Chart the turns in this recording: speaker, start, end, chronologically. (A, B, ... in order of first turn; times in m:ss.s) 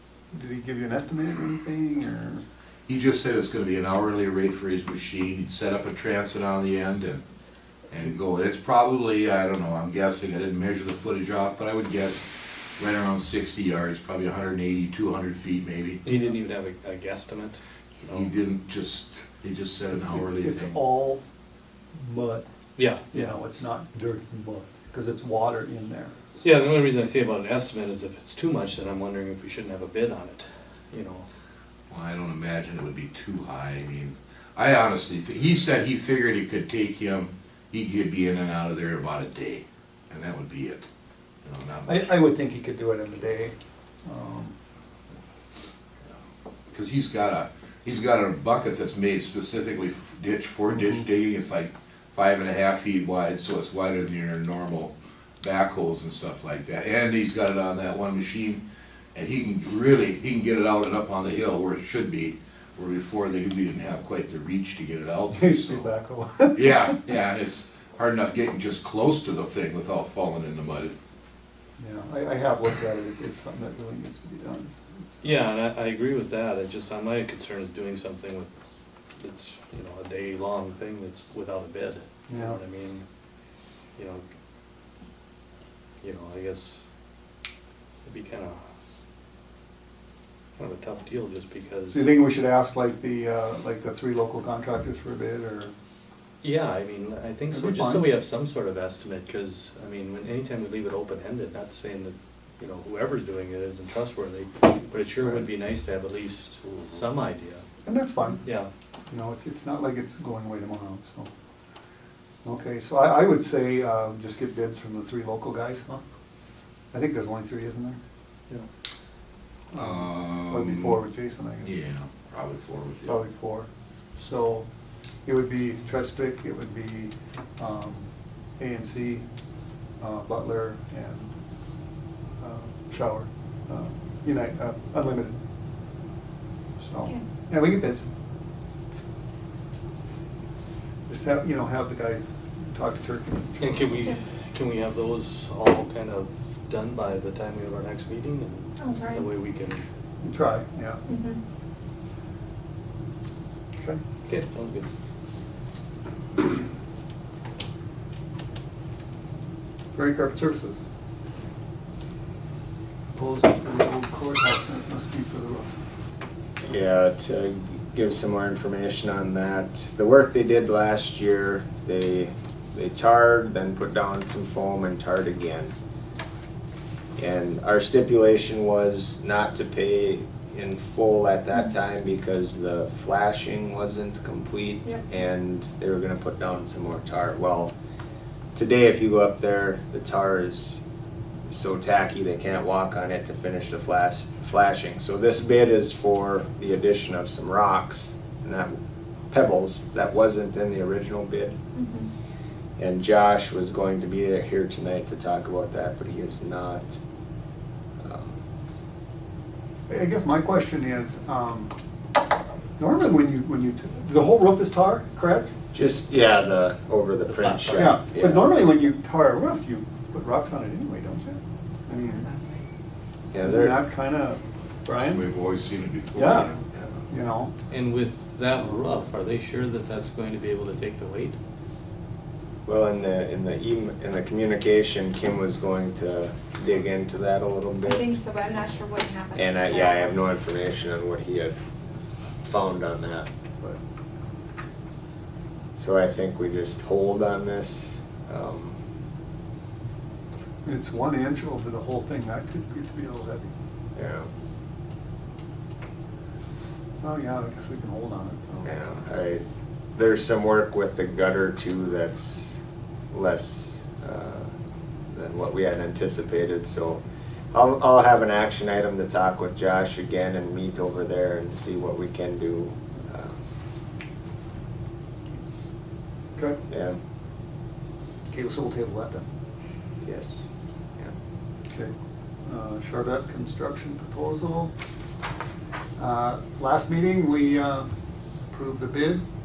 0:00.3-0:02.4 A
0:02.9-0:07.2 B
0:07.9-0:12.2 B
0:12.8-0:16.0 B
0:16.0-0:18.3 C
0:18.0-0:20.8 B
0:19.9-0:21.2 A
0:21.9-0:22.5 A
0:22.8-0:23.2 C
0:23.1-0:26.1 A
0:26.4-0:31.3 C
0:31.9-0:40.9 B
0:41.4-0:42.1 B
0:41.9-0:44.6 A
0:46.7-0:58.6 B
0:59.2-1:05.9 B
1:05.3-1:06.9 A
1:06.5-1:11.0 B
1:11.8-1:14.7 A
1:15.2-1:18.5 C
1:19.2-1:23.0 C
1:22.3-1:22.6 A
1:24.0-1:24.2 C
1:26.0-1:26.8 C
1:28.0-1:28.6 C
1:30.6-1:32.1 C
1:31.9-1:35.7 A
1:36.4-1:47.6 C
1:37.5-1:38.1 A
1:45.2-1:45.4 A
1:47.8-1:48.4 A
1:48.4-1:48.7 C
1:49.1-1:51.3 A
1:52.4-1:56.0 A
1:56.9-1:58.0 A
1:59.7-2:01.7 A
1:59.8-2:01.0 B
2:01.6-2:03.2 B
2:03.1-2:04.7 A
2:05.3-2:08.1 A
2:08.6-2:09.3 A
2:10.0-2:11.3 A
2:12.4-2:15.4 A
2:16.8-2:18.0 A
2:21.1-2:24.0 A
2:23.6-2:29.8 C
2:28.8-2:29.3 D
2:30.2-2:31.0 A
2:31.0-2:31.4 D
2:34.3-2:34.9 C
2:40.0-2:40.8 A
2:43.1-2:45.8 A
2:46.6-2:55.7 E
2:57.2-3:07.7 E
3:08.6-3:10.8 E
3:11.5-3:18.8 E
3:19.3-3:21.6 E
3:21.8-3:22.1 D
3:22.8-3:27.0 E
3:28.0-3:28.4 E
3:29.9-3:31.7 A
3:32.8-3:35.6 A
3:35.7-3:38.6 E
3:37.3-3:38.0 C
3:37.7-3:42.3 A
3:42.0-3:42.7 D
3:43.3-3:43.8 E
3:43.4-3:45.2 A
3:45.0-3:47.0 B
3:46.1-3:46.5 A
3:47.1-3:47.5 A
3:47.7-3:51.4 C
3:48.6-3:48.9 A
3:52.7-3:58.2 E
3:57.8-4:00.1 D
3:59.4-4:01.6 E
4:02.4-4:03.3 E
4:05.8-4:08.8 E
4:10.6-4:13.5 A
4:14.0-4:14.3 E
4:17.0-4:18.7 A
4:18.6-4:19.4 E
4:20.0-4:22.6 E
4:23.1-4:24.5 E
4:25.1-4:33.4 E
4:36.7-4:37.0 E
4:38.3-4:39.2 A
4:40.0-4:41.1 E
4:42.4-4:44.7 A
4:46.0-4:47.9 A
4:48.5-4:49.2 A